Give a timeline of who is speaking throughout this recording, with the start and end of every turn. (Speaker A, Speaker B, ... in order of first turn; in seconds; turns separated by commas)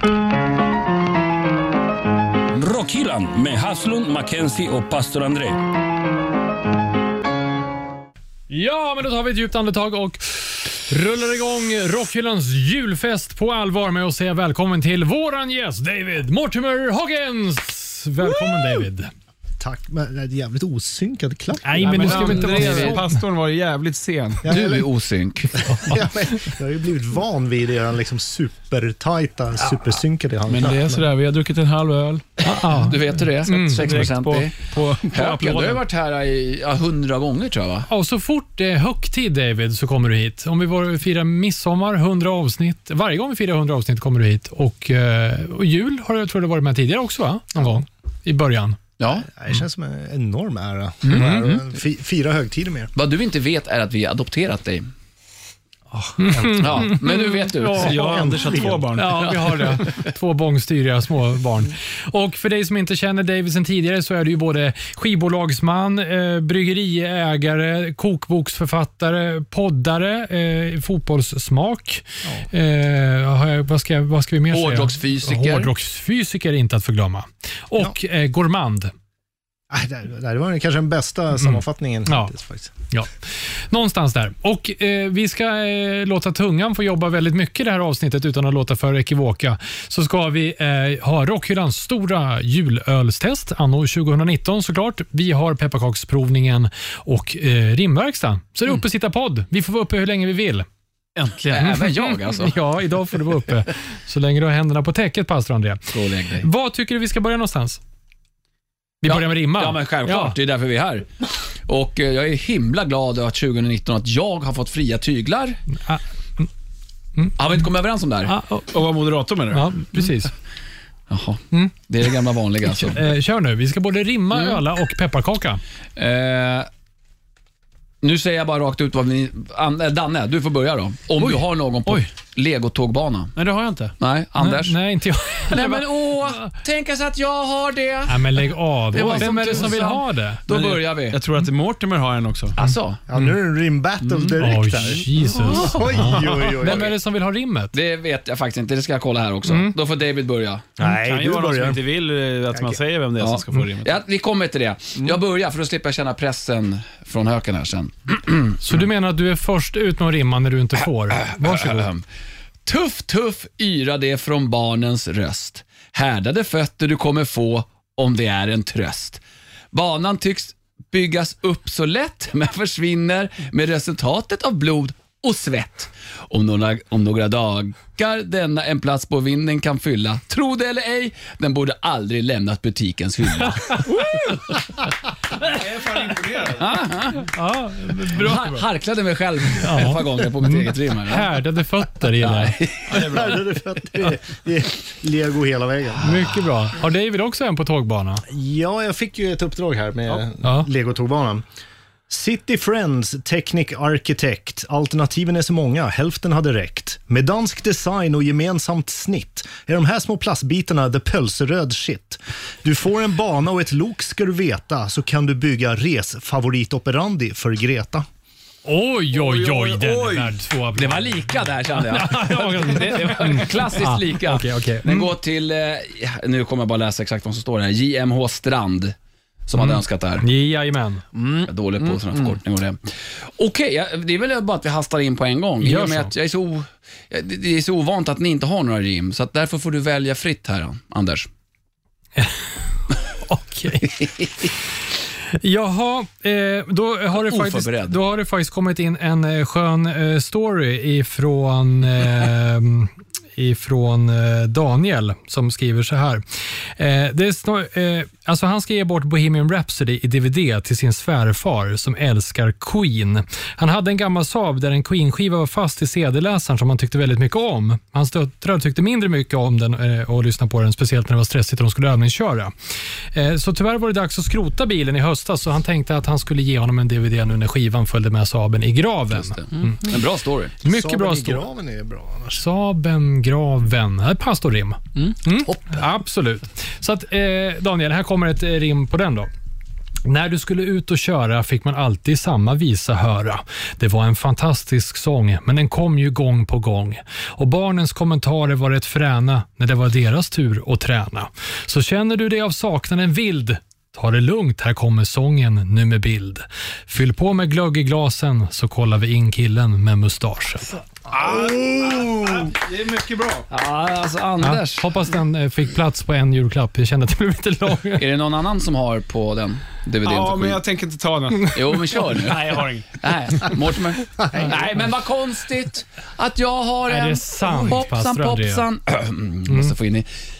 Speaker A: 2.5-5.6, Speaker B: 8.5-19.1, Speaker C: 19.6-22.7, Speaker B: 21.6-23.2, Speaker D: 21.8-24.5, Speaker E: 22.4-23.0, Speaker C: 24.4-24.9, Speaker E: 24.5-25.7, Speaker C: 25.6-31.1, Speaker B: 25.7-26.0, Speaker D: 30.5-32.4, Speaker E: 32.4-34.6, Speaker B: 32.5-34.1, Speaker D: 33.5-35.8, Speaker E: 35.1-37.9, Speaker B: 37.9-48.8, Speaker E: 49.0-49.3, Speaker C: 49.2-52.9, Speaker E: 51.0-51.6, Speaker E: 53.0-54.9, Speaker B: 56.2-57.9, Speaker C: 56.2-57.0, Speaker E: 56.5-58.2, Speaker D: 57.6-59.9, Speaker C: 57.8-59.2, Speaker B: 59.0-78.9, Speaker E: 74.5-75.7, Speaker C: 79.7-82.7, Speaker B: 81.4-82.3, Speaker B: 83.7-100.7, Speaker D: 101.2-101.9, Speaker E: 101.5-102.6, Speaker B: 101.7-107.8, Speaker E: 105.9-106.5, Speaker B: 109.0-110.4, Speaker E: 109.0-111.1, Speaker E: 111.7-115.6, Speaker B: 115.8-116.5, Speaker E: 117.4-118.3, Speaker B: 118.3-118.8, Speaker D: 118.7-120.1, Speaker B: 119.5-120.3, Speaker E: 121.1-123.1, Speaker B: 122.7-125.6, Speaker E: 124.3-124.6, Speaker E: 126.0-126.7, Speaker E: 128.0-133.3, Speaker D: 131.2-132.1, Speaker D: 133.4-133.9, Speaker E: 134.0-134.8, Speaker B: 134.4-136.5, Speaker E: 135.4-141.2, Speaker B: 138.1-140.4, Speaker D: 139.0-139.9, Speaker D: 140.5-142.6, Speaker E: 142.6-143.0, Speaker C: 143.1-146.9, Speaker B: 144.4-147.7, Speaker E: 146.5-146.9, Speaker E: 147.7-150.7, Speaker B: 149.5-149.7, Speaker C: 150.8-151.8, Speaker D: 150.9-154.0, Speaker C: 152.5-152.8, Speaker E: 153.2-158.8, Speaker B: 158.6-161.9, Speaker E: 161.2-162.0, Speaker E: 162.7-169.2, Speaker E: 169.7-183.9, Speaker B: 183.7-184.3, Speaker D: 185.4-186.7, Speaker E: 186.5-187.3, Speaker B: 187.3-188.7, Speaker E: 188.0-191.4, Speaker B: 189.6-192.6, Speaker E: 192.1-193.2, Speaker D: 192.9-193.4, Speaker C: 192.9-196.1, Speaker B: 196.0-198.2, Speaker C: 198.3-201.4, Speaker B: 200.4-200.7, Speaker C: 202.1-218.1, Speaker B: 218.7-225.1, Speaker D: 219.2-220.2, Speaker E: 219.5-220.1, Speaker E: 220.8-228.9, Speaker D: 222.8-223.5, Speaker E: 229.5-230.3, Speaker B: 229.6-231.1, Speaker D: 231.2-231.5, Speaker E: 231.4-241.3, Speaker B: 235.6-236.1, Speaker B: 242.2-242.5, Speaker B: 243.3-244.1, Speaker B: 245.3-256.2, Speaker E: 247.2-248.0, Speaker B: 256.8-272.5, Speaker B: 273.1-279.9, Speaker E: 279.2-280.6, Speaker B: 280.6-281.5, Speaker C: 280.6-282.4, Speaker B: 282.4-289.3, Speaker C: 285.4-285.9, Speaker B: 290.1-310.8, Speaker D: 311.1-313.5, Speaker E: 311.2-312.5, Speaker E: 313.5-314.9, Speaker B: 314.4-318.1, Speaker E: 318.0-320.6, Speaker D: 320.0-322.9, Speaker E: 321.5-330.1, Speaker C: 324.2-324.7, Speaker B: 326.9-328.6, Speaker B: 329.5-329.7